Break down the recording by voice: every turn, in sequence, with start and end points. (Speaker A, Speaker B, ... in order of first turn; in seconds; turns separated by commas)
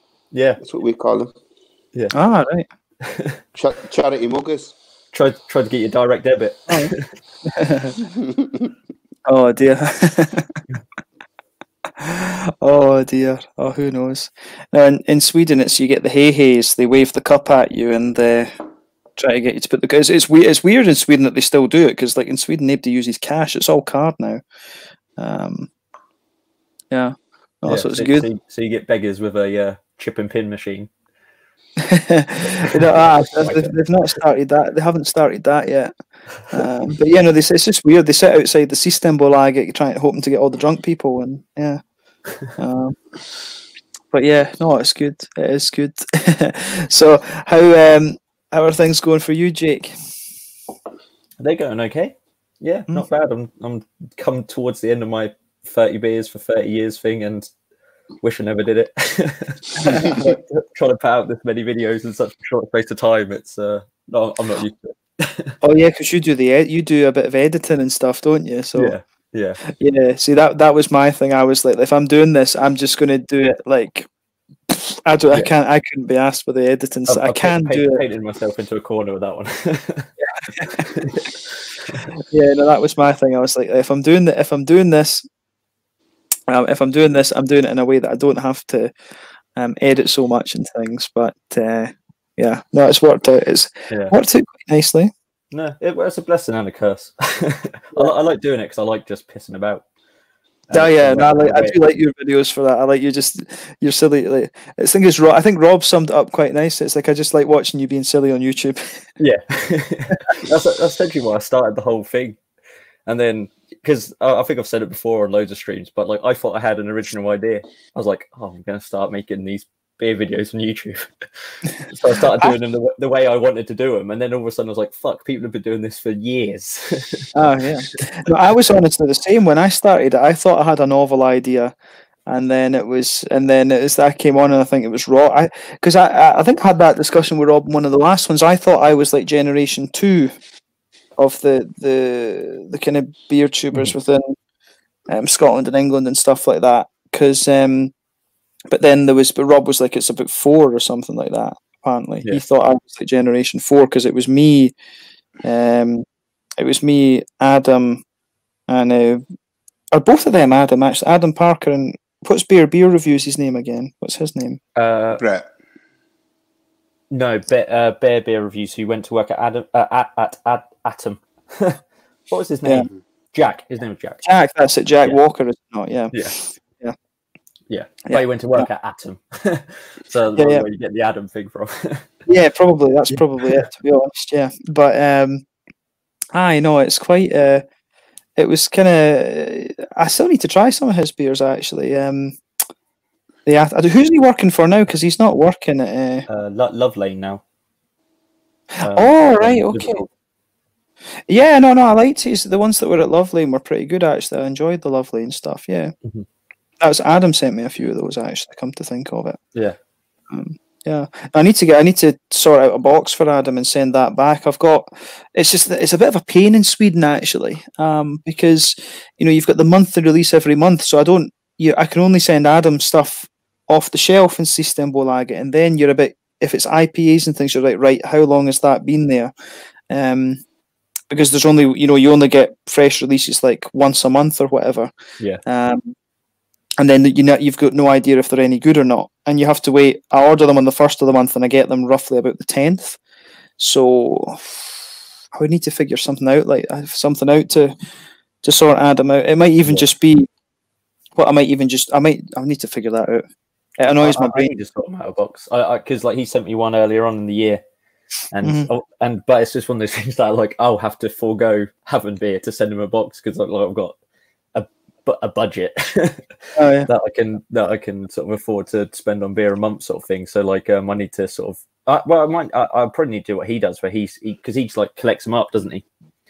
Speaker A: 0.3-0.6, Speaker B: 0.6-1.3, Speaker C: 2.1-2.7, Speaker A: 3.0-3.4, Speaker B: 3.5-4.7, Speaker A: 5.1-7.1, Speaker C: 6.7-6.9, Speaker C: 7.5-7.9, Speaker B: 8.2-8.7, Speaker C: 9.3-10.6, Speaker C: 12.0-18.5, Speaker C: 19.2-24.4, Speaker C: 25.2-25.7, Speaker C: 26.9-28.3, Speaker A: 27.7-30.9, Speaker C: 31.8-35.9, Speaker A: 32.5-33.7, Speaker C: 36.5-41.8, Speaker C: 42.6-43.0, Speaker C: 44.1-50.0, Speaker A: 51.4-57.5, Speaker A: 58.2-65.6, Speaker C: 59.8-60.4, Speaker C: 65.6-68.9, Speaker A: 68.8-69.6, Speaker C: 69.7-74.1, Speaker C: 74.7-78.0, Speaker A: 77.1-82.1, Speaker C: 80.6-80.8, Speaker C: 82.3-85.2, Speaker C: 86.5-88.9, Speaker C: 89.6-95.1, Speaker A: 93.9-94.2, Speaker A: 95.5-99.8, Speaker A: 100.7-101.8, Speaker C: 100.7-109.0, Speaker A: 109.2-112.4, Speaker A: 113.1-127.3, Speaker C: 127.3-131.7, Speaker C: 132.3-140.3, Speaker C: 141.2-144.3, Speaker C: 145.1-147.9, Speaker C: 148.7-154.7, Speaker C: 155.4-156.1, Speaker C: 156.6-158.0, Speaker C: 158.7-159.2, Speaker C: 159.9-164.6, Speaker A: 164.8-165.2, Speaker B: 165.2-165.5, Speaker A: 167.1-174.2, Speaker C: 174.2-176.9, Speaker A: 177.7-182.2, Speaker C: 178.1-178.7, Speaker C: 180.4-180.7, Speaker C: 182.3-185.4, Speaker A: 183.1-183.6, Speaker C: 186.3-187.6, Speaker C: 188.4-192.4, Speaker C: 193.4-196.3, Speaker A: 196.3-197.4, Speaker C: 198.8-200.0, Speaker A: 198.8-200.1, Speaker C: 201.3-205.9, Speaker C: 206.8-209.4, Speaker C: 210.3-229.3, Speaker C: 229.9-230.4, Speaker C: 231.1-234.9, Speaker C: 235.4-235.9, Speaker C: 236.8-243.0, Speaker C: 243.6-244.7, Speaker C: 245.3-247.7, Speaker C: 248.4-250.3, Speaker C: 251.2-253.2, Speaker C: 253.8-254.6, Speaker A: 254.0-257.6, Speaker A: 258.3-263.9, Speaker C: 258.4-258.7, Speaker A: 264.5-275.8, Speaker C: 266.6-266.9